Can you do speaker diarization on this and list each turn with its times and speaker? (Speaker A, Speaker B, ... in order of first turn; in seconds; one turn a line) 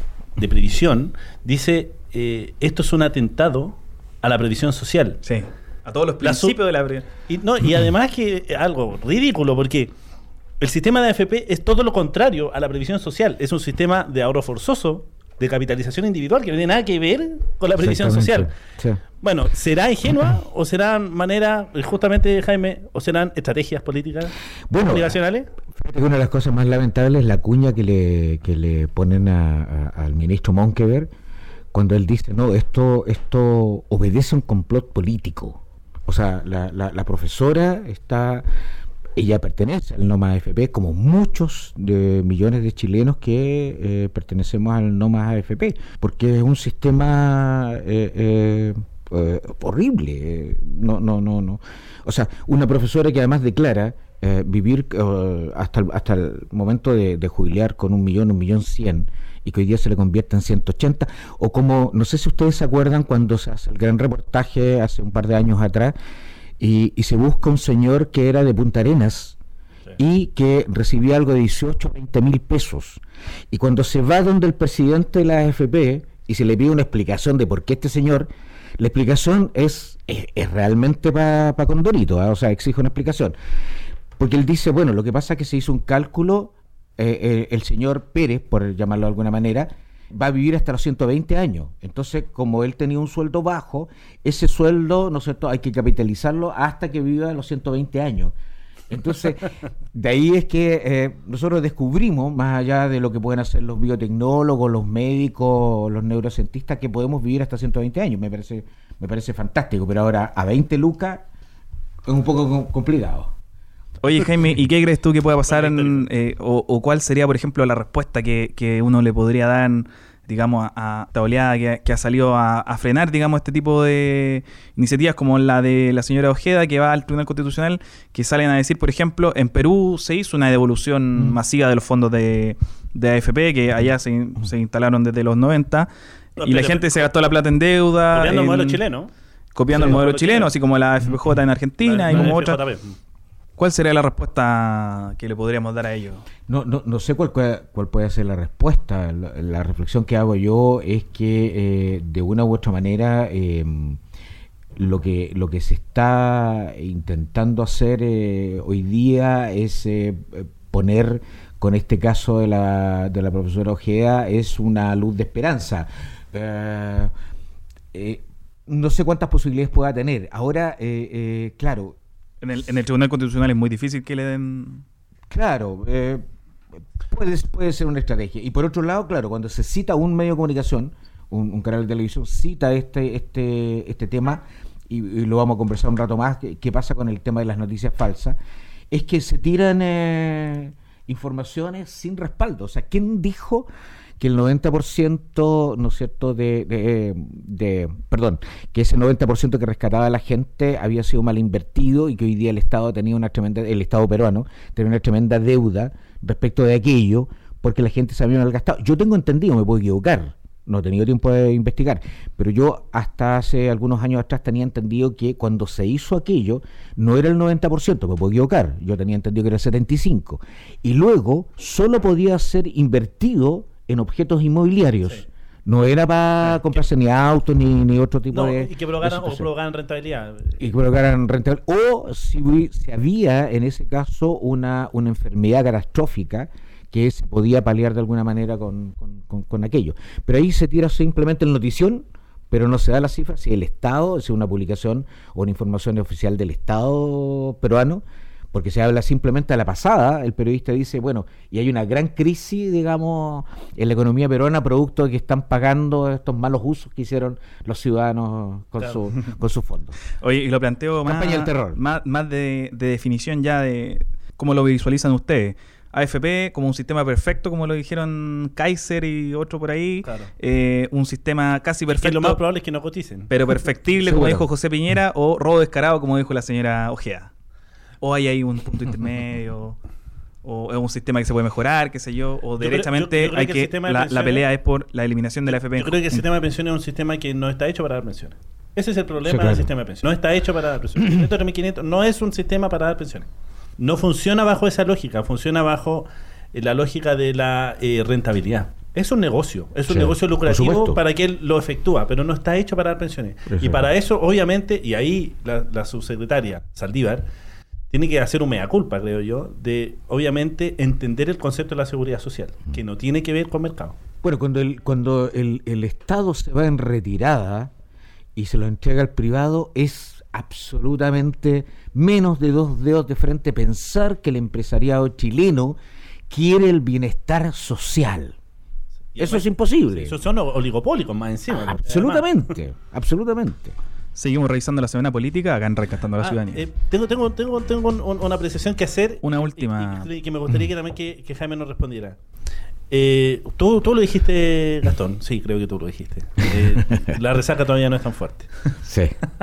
Speaker A: 0.4-5.2
Speaker B: 5.2-7.0
Speaker A: 6.2-6.5
Speaker A: 7.3-9.9
Speaker A: 10.6-18.5
Speaker C: 17.8-19.0
Speaker A: 19.2-25.5
Speaker C: 24.7-25.1
Speaker C: 25.7-31.1
Speaker C: 31.7-38.5
Speaker C: 39.1-65.9
Speaker C: 66.6-69.4
Speaker C: 70.0-83.3
Speaker C: 84.2-98.3
Speaker C: 98.9-111.2
Speaker C: 112.0-113.3
Speaker B: 114.0-135.9
Speaker A: 115.5-116.0
Speaker A: 136.4-137.0
Speaker B: 136.4-138.8
Speaker A: 138.1-139.1
Speaker B: 139.5-142.6
Speaker A: 139.7-140.5
Speaker A: 141.8-142.9
Speaker B: 143.6-146.2
Speaker C: 146.5-154.0
Speaker C: 154.8-167.1
Speaker C: 167.9-172.0
Speaker B: 172.4-174.8
Speaker C: 175.3-176.2
Speaker C: 177.0-188.4
Speaker C: 188.9-193.7
Speaker C: 194.2-229.5
Speaker A: 228.3-230.7
Speaker C: 230.6-259.9
Speaker B: 260.2-272.4
Speaker C: 261.0-261.8
Speaker A: 270.0-270.3
Speaker A: 271.9-273.3
Speaker B: 273.3-277.3
Speaker C: 274.0-274.5
Speaker B: 278.0-279.8
Speaker B: 280.4-286.2
Speaker A: 282.6-284.4
Speaker A: 285.7-293.3
Speaker C: 289.2-289.7
Speaker A: 293.8-307.2
Speaker C: 299.9-301.0
Speaker C: 303.5-303.8
Speaker A: 307.9-313.9
Speaker C: 314.2-317.7
Speaker C: 318.4-325.8
Speaker C: 326.3-328.4
Speaker A: 329.1-332.3
Speaker C: 329.2-330.1
Speaker C: 331.5-333.7
Speaker B: 334.1-336.6
Speaker A: 336.2-342.2
Speaker B: 339.2-340.1
Speaker A: 342.9-348.5
Speaker C: 348.8-349.2